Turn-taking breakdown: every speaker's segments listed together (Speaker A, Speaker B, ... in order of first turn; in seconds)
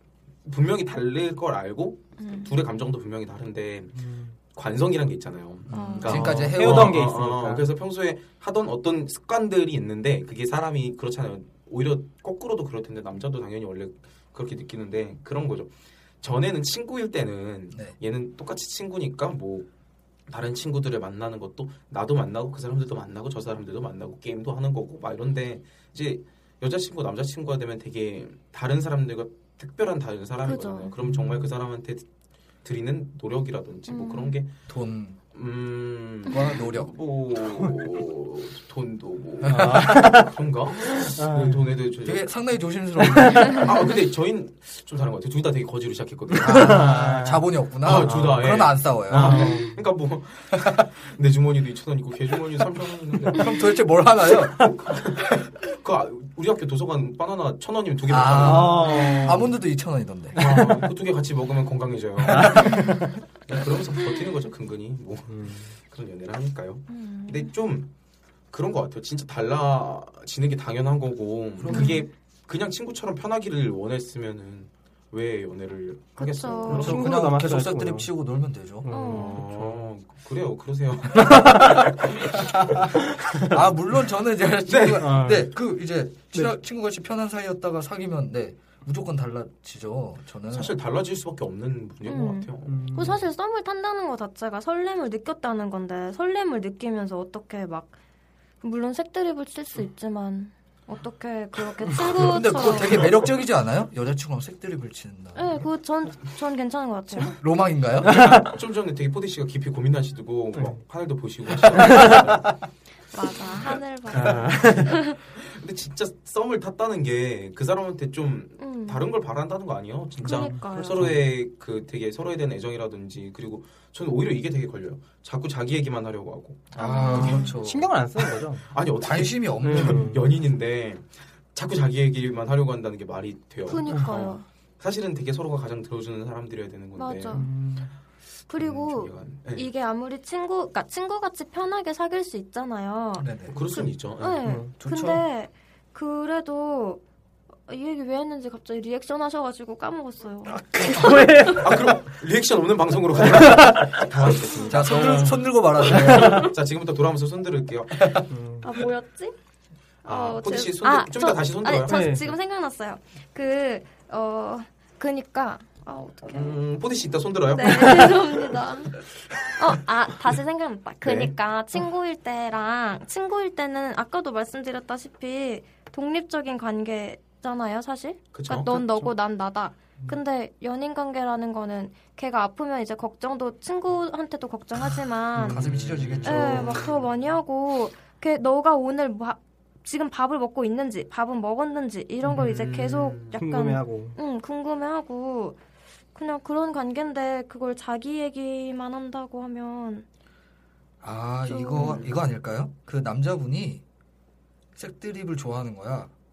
Speaker A: 0.4-4.0, 4.5-15.7, 16.2-19.7, 20.3-32.0, 32.6-34.5, 35.3-42.3, 43.5-47.0, 47.8-53.5, 54.6-59.4, 60.4-67.9, 68.5-77.1, 78.9-82.5, 84.7-85.3, 90.5-92.9, 102.7-103.1, 108.0-112.6, 115.3-127.4, 128.7-137.5, 138.6-139.7, 143.5-144.4, 151.6-158.0, 160.0-162.1, 166.3-168.3, 171.0-171.3, 178.3-179.1, 185.4-187.0, 192.3-193.4, 201.8-202.2
Speaker B: 2.2-2.5, 5.7-6.2, 30.4-30.9, 33.9-34.4, 66.9-67.5, 71.7-72.1, 76.2-76.9, 78.9-79.4, 92.0-97.9, 98.6-103.1, 105.3-107.3, 113.1-115.2, 118.6-119.1, 120.2-121.1, 126.7-127.5, 133.7-134.4, 136.9-137.5, 138.5-143.3, 144.2-147.0, 147.7-151.2, 158.6-159.3, 160.0-166.6, 167.5-169.0, 169.5-185.7, 186.2-195.6, 196.1-200.0, 201.4-202.0
Speaker C: 4.0-4.3, 6.0-7.7, 31.0-31.5, 39.5-40.3, 40.9-41.6, 43.0-43.6, 46.4-47.4, 48.0-48.5, 49.1-49.8, 58.3-59.4, 60.4-60.9, 62.2-63.2, 65.3-65.7, 76.7-78.1, 78.8-79.9, 81.2-81.9, 83.3-83.6, 85.0-85.5, 92.7-93.2, 108.0-108.5, 110.5-110.8, 111.7-112.3, 114.1-114.9, 120.2-121.2, 127.1-128.7, 129.6-130.2, 137.3-137.9, 150.7-152.1, 153.2-156.5, 158.3-158.7, 161.9-162.3, 193.3-194.2
Speaker D: 5.7-7.1, 34.7-35.2, 36.3-36.9, 39.4-39.9, 42.0-43.8, 46.4-49.6, 50.5-50.8, 53.3-54.7, 58.1-60.5, 71.6-72.0, 76.7-78.9, 82.3-90.8, 102.2-105.7, 107.2-108.4, 126.7-128.0, 129.0-130.2, 143.2-143.6, 144.8-145.2, 154.7-156.5, 158.0-158.2, 185.4-186.9, 201.0-203.8, 204.8-206.1